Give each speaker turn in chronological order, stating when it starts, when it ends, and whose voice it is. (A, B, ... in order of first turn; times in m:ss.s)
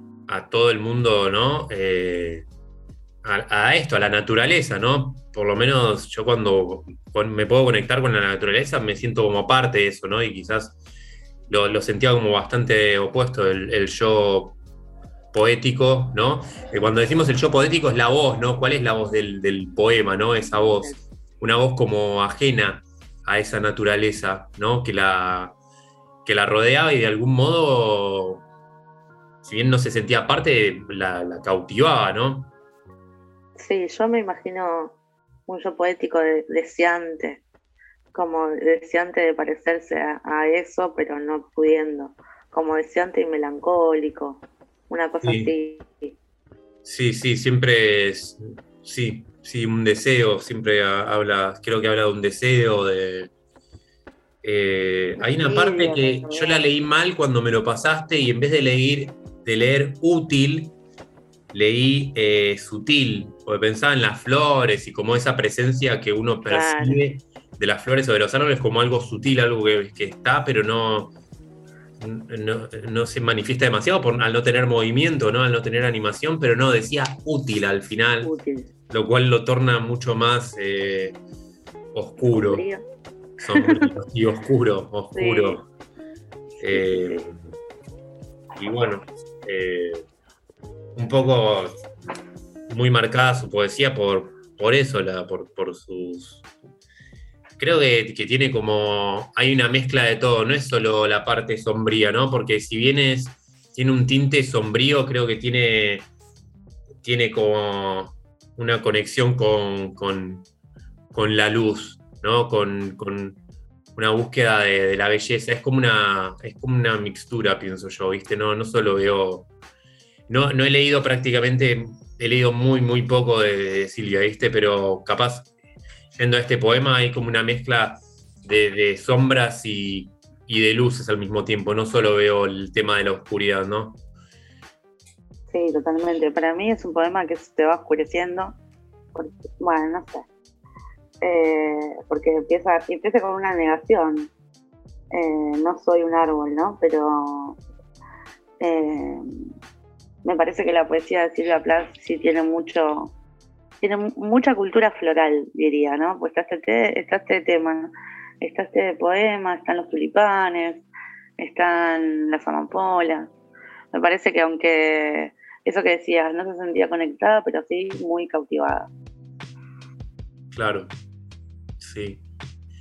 0:00.3-0:02.4 A
0:03.2-0:10.8 A
0:11.5-0:14.6 A
0:15.3-0:25.6 A
0:20.5-0:21.0 B
0:26.2-0:28.4 A
0:29.4-0:32.5 A
0:33.6-0:37.4 B
0:38.1-0:46.2 B
0:45.2-0:45.5 A
0:46.8-0:53.3 A
0:54.4-1:00.8 A
0:55.2-0:56.6 B
1:01.5-1:11.1 A
1:06.5-1:07.0 B
1:12.0-1:18.3 A
1:18.2-1:18.7 B
1:18.9-1:21.2 A
1:21.9-1:22.6 A
1:22.3-1:22.8 B
1:23.4-1:25.6 A
1:23.6-1:23.9 B
1:25.1-1:25.6 B
1:26.6-1:27.3 B
1:26.6-1:27.4 A
1:28.6-1:30.0 A
1:31.0-1:31.8 A
1:32.7-1:36.4 A
1:37.6-1:46.1 A
1:47.0-1:50.5 A
1:51.1-1:53.4 A
1:54.0-1:59.5 A
2:00.3-2:05.5 A
2:06.2-2:14.0 A
2:15.5-2:18.6 B
2:19.1-2:20.3 B
2:21.2-2:24.3 B
2:25.1-2:27.6 B
2:28.6-2:29.3 B
2:30.2-2:33.1 B
2:33.8-2:40.8 B
2:41.4-2:43.3 B
2:43.9-2:48.9 B
2:50.5-2:50.9 A
2:51.8-2:52.2 A